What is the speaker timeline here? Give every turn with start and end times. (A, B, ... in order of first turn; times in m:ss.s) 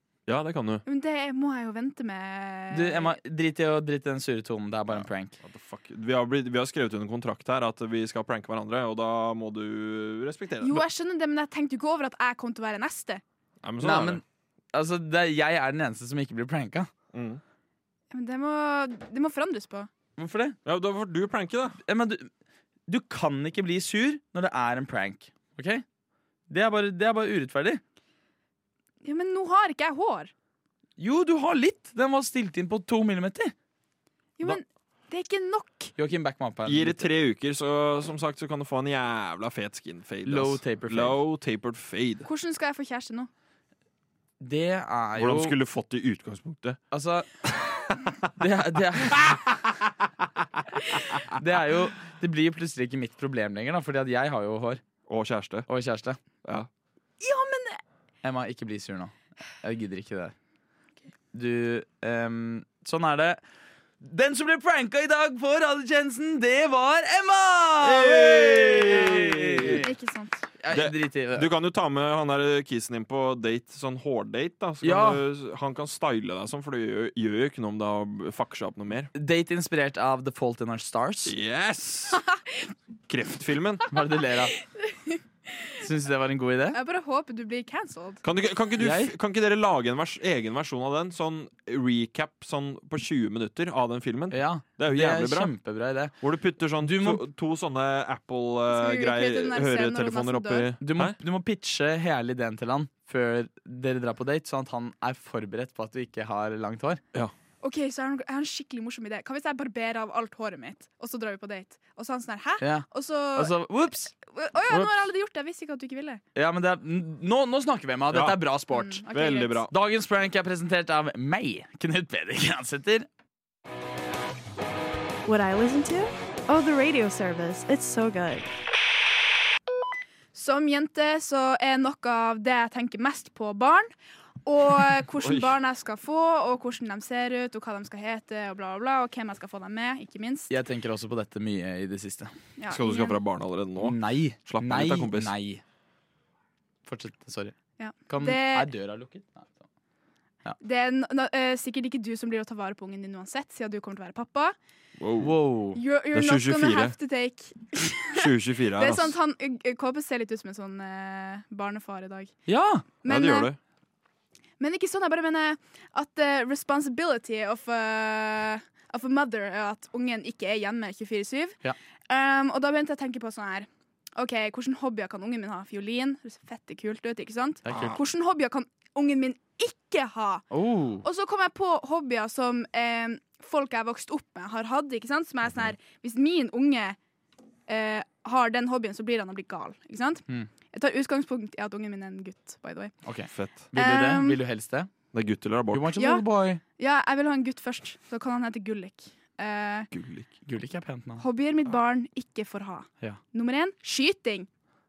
0:00.3-0:00.8 A
0:00.9-0:03.2 B
0:02.7-0:05.4 C
0:04.9-0:10.8 A
0:10.6-0:13.2 B
0:13.6-0:14.2 A
0:13.8-0:14.2 C
0:14.7-0:16.9 C
0:17.1-0:17.4 A
0:18.1-0:19.9 B
0:20.2-0:20.6 C
0:20.6-0:21.8 A
0:21.8-0:22.3 C
0:22.9-0:25.8 C
0:26.5-0:27.8 C
0:29.0-0:30.3 B
0:31.0-0:33.5 C
0:34.4-0:35.9 B
0:36.0-0:37.1 C
0:36.7-0:42.3 A
0:40.3-0:41.2 C
0:42.2-0:43.3 B
0:44.4-0:45.6 C
0:45.2-0:46.8 A
0:46.9-0:47.3 C
0:47.5-0:47.9 A
0:48.4-0:49.4 C
0:49.0-0:49.9 A
0:51.3-0:54.8 C
0:55.1-0:55.7 A
0:55.7-0:56.2 C
0:57.2-0:57.8 B
0:58.2-1:00.4 C
1:01.3-1:03.4 C
1:04.0-1:09.9 C
1:07.8-1:09.9 A
1:09.7-1:10.5 B
1:10.6-1:11.5 C
1:10.7-1:19.1 A
1:14.8-1:15.2 C
1:19.2-1:21.4 C
1:21.2-1:22.2 A
1:23.1-1:23.9 A
1:23.9-1:24.6 C
1:24.8-1:25.2 B
1:25.8-1:26.8 C
1:26.7-1:28.2 B
1:28.2-1:35.5 A
1:28.8-1:29.1 C
1:34.3-1:36.1 C
1:36.2-1:41.2 A
1:36.8-1:37.2 C
1:38.7-1:40.7 B
1:40.8-1:47.0 C
1:47.6-1:53.5 B
1:52.6-1:54.1 C
1:54.1-1:56.2 B
1:54.7-1:55.0 C
1:56.4-1:59.0 C
1:58.1-1:58.4 A
1:58.7-1:59.7 B
1:59.1-1:59.7 A
1:59.7-2:03.1 C
2:05.2-2:08.5 D
2:10.3-2:13.9 B
2:14.4-2:20.5 B
2:15.2-2:15.6 A
2:20.5-2:22.3 C
2:22.6-2:23.2 B
2:22.7-2:25.3 A
2:23.8-2:25.6 C
2:26.8-2:27.6 C
2:27.8-2:28.7 B
2:28.1-2:29.6 C
2:30.6-2:34.6 B
2:35.0-2:35.3 A
2:35.2-2:35.8 C
2:35.8-2:42.3 B
2:36.1-2:37.0 A
2:38.1-2:39.2 A
2:42.5-2:42.8 C
2:43.0-2:43.5 B
2:43.0-2:43.6 A
2:44.6-3:00.5 B
2:57.7-2:58.0 C
2:57.7-2:58.0 A
3:00.5-3:01.0 C
3:01.0-3:07.0 B
3:07.7-3:12.9 B
3:13.0-3:14.9 C
3:13.3-3:13.7 A
3:13.7-3:14.4 B
3:15.1-3:15.9 A
3:15.7-3:16.6 C
3:16.0-3:16.2 B
3:16.8-3:19.9 B
3:19.9-3:20.3 A
3:20.5-3:21.2 C
3:21.2-3:24.5 B